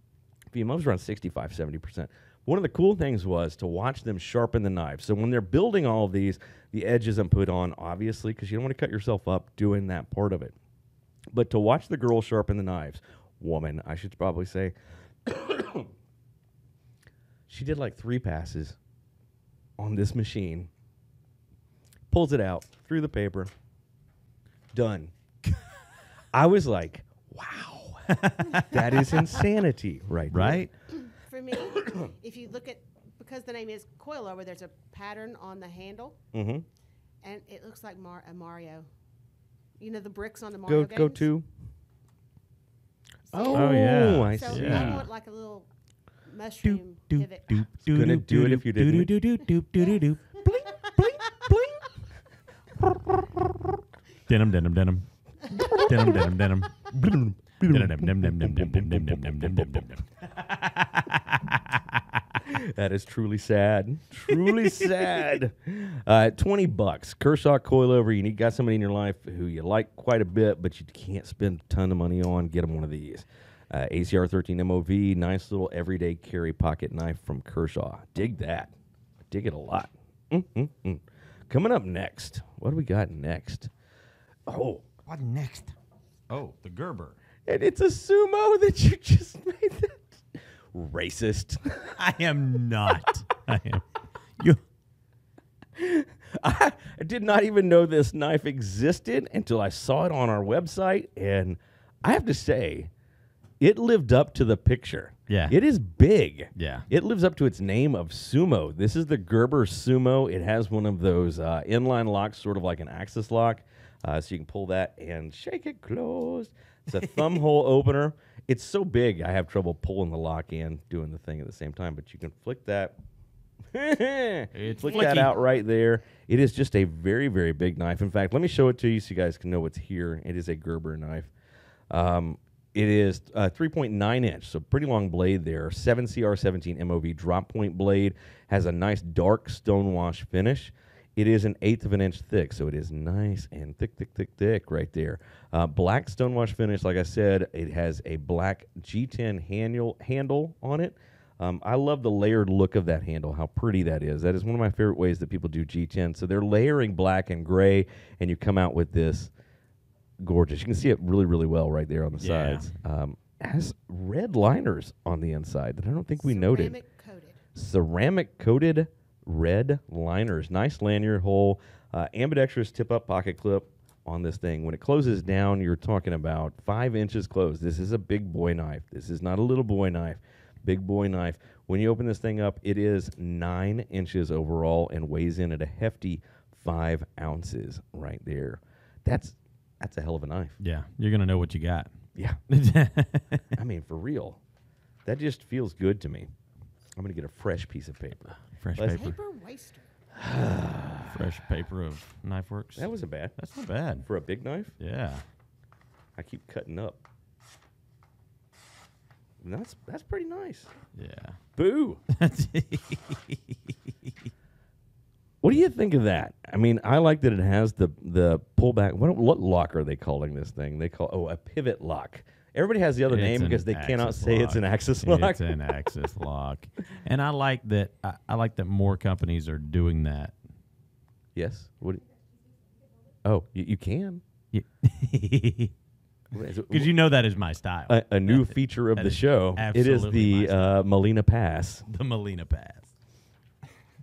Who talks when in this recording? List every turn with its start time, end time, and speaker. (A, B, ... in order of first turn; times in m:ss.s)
0:00.5-0:10.5 A
0:11.3-0:14.7 A
0:15.3-0:15.9 A
0:17.5-0:18.8 A
0:19.8-0:20.7 A
0:22.1-0:23.5 A
0:24.7-0:25.1 A
0:26.3-0:30.7 A
0:28.1-0:29.3 B
0:30.3-0:30.7 B
0:31.0-0:36.2 C
0:36.3-0:36.6 A
0:37.2-0:38.9 C
0:39.8-0:41.3 C
0:40.7-0:41.5 A
0:43.3-0:45.7 C
0:43.3-0:45.0 A
0:43.5-0:45.1 B
0:46.3-0:47.6 C
0:46.6-0:50.8 B
0:47.9-0:49.1 A
0:50.5-0:51.8 A
0:54.3-0:56.9 B
0:55.6-0:56.3 A
0:56.9-0:59.9 A
0:57.6-1:02.4 B
1:02.4-1:18.7 A
1:04.3-1:04.9 B
1:19.3-1:23.7 A
1:24.5-1:24.9 A
1:25.1-1:25.7 B
1:26.3-1:27.2 B
1:27.5-1:32.0 A
1:32.0-1:34.6 B
1:35.8-1:42.9 A
1:43.6-2:03.0 A
1:45.3-1:45.6 B
1:46.6-1:46.9 B
2:03.7-2:11.3 A
2:04.5-2:05.4 B
2:04.7-2:05.4 C
2:11.9-2:39.3 A
2:40.2-2:46.8 A
2:42.2-2:42.7 B
2:46.2-2:47.4 C
2:47.6-3:10.6 A
3:10.6-3:11.9 B
3:12.5-3:13.6 B
3:13.6-3:14.4 A
3:15.1-3:16.3 A
3:17.0-3:19.1 A
3:18.5-3:19.2 B
3:18.8-3:19.9 C
3:20.2-3:21.2 A
3:21.1-3:24.1 B
3:22.8-3:23.4 A
3:24.0-3:24.8 A
3:24.8-3:25.2 B
3:26.2-3:27.0 A
3:29.4-3:30.7 A
3:31.0-3:31.4 B
3:31.6-3:32.0 A
3:32.1-3:34.3 B
3:35.4-3:45.6 A
3:43.1-3:50.4 B
3:51.4-3:52.0 A
3:53.2-3:54.2 A
3:54.5-3:55.7 B
3:56.3-3:56.9 A
3:56.7-4:00.8 B
3:57.9-4:01.8 A
4:01.9-4:02.9 B